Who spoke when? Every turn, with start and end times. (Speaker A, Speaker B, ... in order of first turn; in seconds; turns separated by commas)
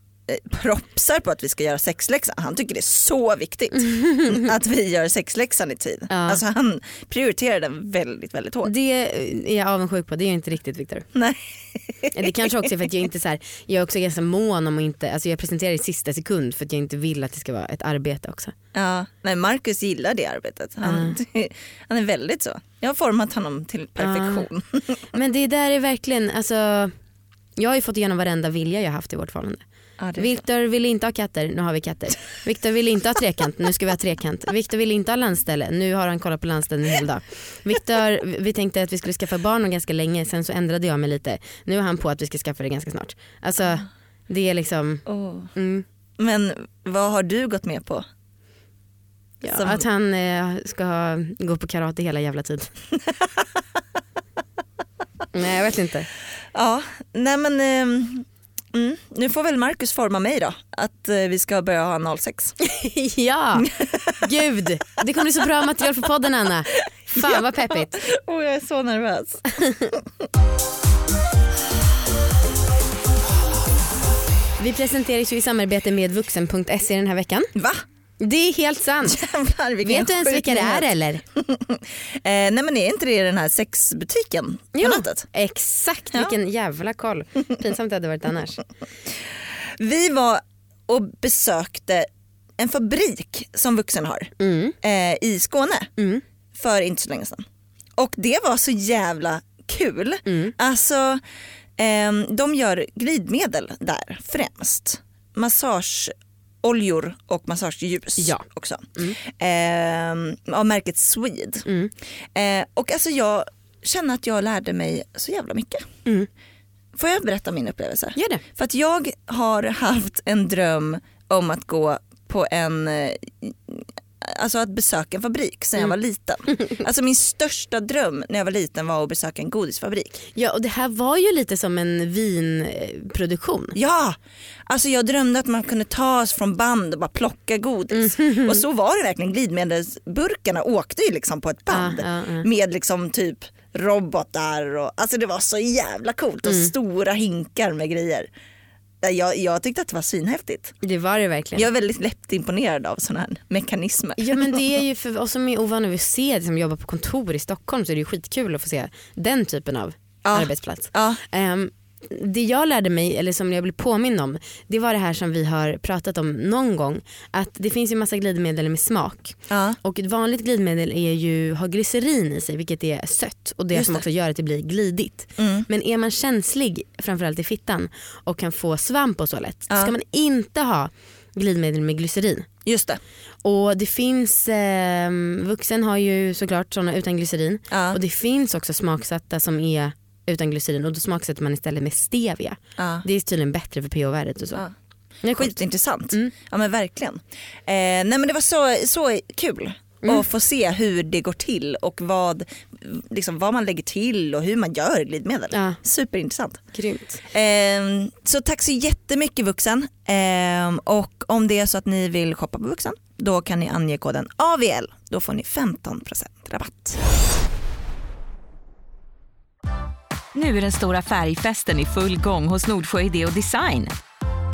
Speaker A: 0.3-8.7, Speaker B: 3.8-4.4, Speaker B: 6.1-6.4, Speaker B: 8.6-11.1, Speaker A: 11.1-12.3, Speaker B: 12.1-18.5, Speaker A: 18.7-25.0, Speaker B: 20.8-21.2, Speaker B: 24.0-24.5, Speaker B: 25.1-26.9, Speaker B: 27.6-29.6, Speaker A: 30.0-30.3, Speaker B: 30.1-45.8, Speaker A: 45.0-45.5, Speaker A: 46.2-48.0, Speaker B: 49.4-52.7, Speaker A: 49.5-49.8, Speaker B: 55.3-56.1, Speaker A: 56.5-62.5, Speaker B: 62.6-67.9, Speaker A: 63.5-64.3, Speaker A: 67.1-69.4, Speaker B: 69.5-69.9, Speaker B: 74.6-77.5, Speaker A: 77.5-77.8, Speaker B: 78.2-79.2, Speaker A: 79.0-85.2, Speaker B: 79.8-81.2, Speaker B: 84.7-88.6, Speaker A: 89.1-92.1, Speaker A: 92.6-95.9, Speaker B: 94.4-94.7, Speaker B: 96.0-96.2, Speaker A: 96.5-97.4, Speaker A: 98.0-101.2, Speaker B: 100.2-100.5, Speaker A: 101.8-111.7, Speaker B: 108.2-108.4, Speaker B: 111.6-111.9, Speaker A: 112.3-115.9, Speaker A: 116.9-130.2, Speaker B: 118.2-118.4, Speaker B: 130.3-133.7, Speaker A: 133.7-148.3, Speaker B: 137.9-138.6, Speaker B: 141.7-142.4, Speaker B: 146.4-146.7, Speaker A: 149.0-150.7, Speaker B: 150.8-151.7, Speaker A: 151.5-154.6, Speaker B: 154.2-182.5, Speaker A: 160.2-161.2, Speaker A: 169.5-169.8, Speaker A: 173.7-174.0, Speaker A: 175.4-175.7, Speaker A: 182.6-183.0, Speaker B: 183.4-194.6, Speaker A: 187.7-188.0, Speaker A: 192.8-193.0, Speaker B: 195.2-195.6, Speaker A: 195.3-206.6, Speaker B: 205.5-205.8, Speaker B: 206.7-207.2, Speaker A: 207.2-217.0, Speaker C: 220.3-223.9